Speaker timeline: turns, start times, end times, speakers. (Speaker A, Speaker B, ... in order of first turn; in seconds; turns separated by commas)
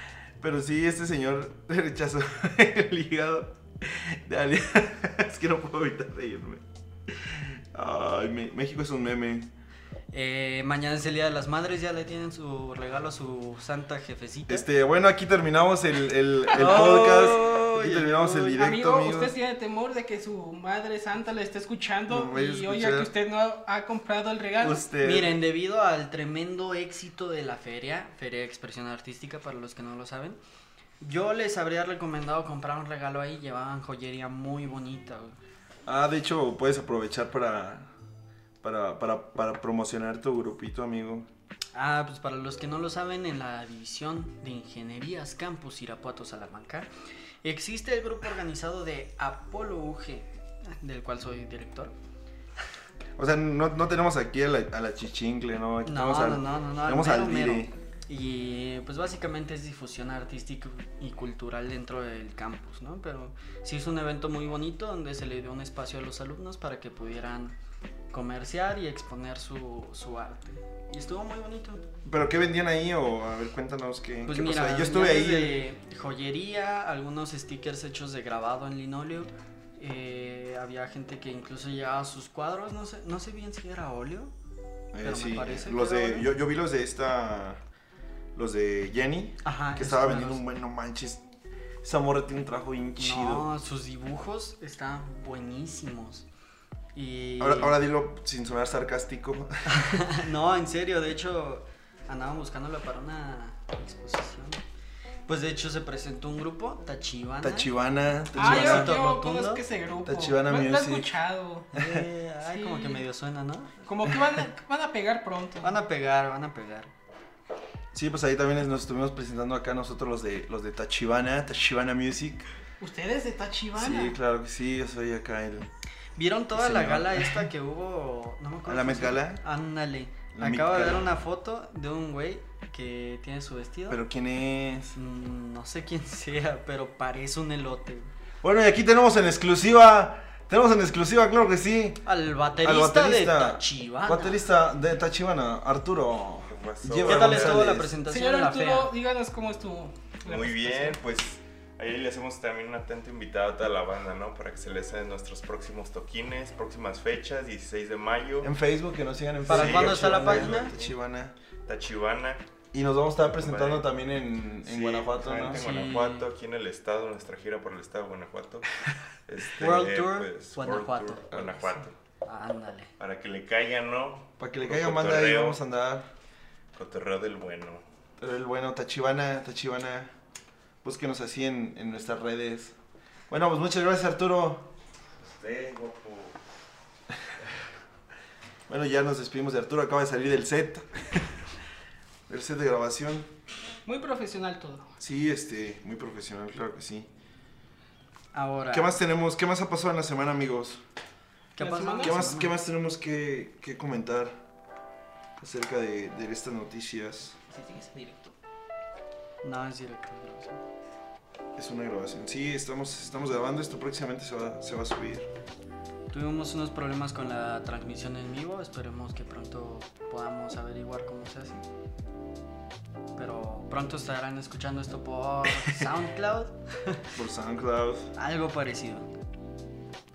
Speaker A: 0.4-9.5, Speaker B: 10.1-14.7, Speaker A: 14.5-19.3, Speaker B: 16.5-18.6, Speaker C: 18.5-24.8, Speaker A: 22.1-23.1, Speaker A: 24.6-25.4, Speaker B: 25.0-30.4, Speaker B: 31.0-35.4, Speaker A: 35.9-37.9, Speaker A: 38.6-41.3, Speaker B: 41.8-46.9, Speaker B: 47.4-52.0, Speaker A: 53.2-57.7, Speaker B: 55.8-67.5, Speaker B: 68.1-71.9, Speaker A: 72.0-75.6, Speaker B: 74.3-84.3, Speaker A: 84.9-87.6, Speaker B: 85.0-86.3, Speaker A: 88.3-91.2, Speaker B: 89.4-90.4, Speaker A: 91.8-93.5, Speaker B: 93.0-96.3, Speaker B: 97.0-97.8, Speaker A: 97.4-100.0, Speaker B: 99.7-104.6, Speaker B: 105.3-107.7, Speaker A: 107.4-108.9, Speaker B: 108.3-109.6, Speaker C: 108.4-111.7, Speaker A: 110.0-111.1, Speaker B: 111.7-113.8, Speaker A: 111.8-112.1, Speaker C: 112.4-113.0, Speaker C: 113.8-115.8, Speaker B: 115.6-116.9, Speaker A: 117.9-122.5, Speaker C: 122.8-124.2, Speaker A: 123.8-125.7, Speaker B: 126.2-134.0, Speaker A: 126.5-127.5, Speaker A: 128.7-129.4, Speaker A: 130.3-131.2, Speaker A: 133.9-135.0, Speaker B: 134.9-138.1, Speaker A: 138.4-142.1, Speaker B: 142.1-144.4, Speaker A: 142.6-147.9, Speaker D: 146.4-147.7, Speaker B: 147.0-148.9, Speaker C: 148.1-151.0, Speaker D: 150.3-158.5, Speaker A: 158.4-161.3, Speaker B: 159.5-160.7, Speaker D: 159.5-160.9, Speaker D: 161.7-162.4, Speaker A: 162.7-165.7, Speaker D: 163.2-163.9, Speaker D: 164.6-168.7, Speaker B: 165.4-166.3, Speaker D: 169.3-171.9, Speaker B: 169.6-172.9, Speaker D: 173.0-175.6, Speaker A: 174.4-176.1, Speaker D: 176.7-177.8, Speaker A: 178.2-180.1, Speaker A: 180.8-182.8, Speaker A: 183.3-184.7, Speaker D: 185.2-186.4, Speaker A: 188.7-191.4, Speaker A: 192.3-193.3, Speaker C: 193.9-194.9, Speaker A: 195.0-197.1, Speaker B: 198.3-199.0, Speaker A: 198.7-200.8, Speaker B: 201.6-202.6, Speaker C: 201.6-202.2, Speaker A: 202.0-204.4, Speaker A: 205.4-207.4, Speaker C: 207.5-208.3, Speaker B: 209.4-210.6, Speaker A: 211.6-215.3, Speaker B: 216.1-221.6, Speaker B: 223.2-227.1, Speaker A: 227.2-228.1, Speaker B: 228.2-229.1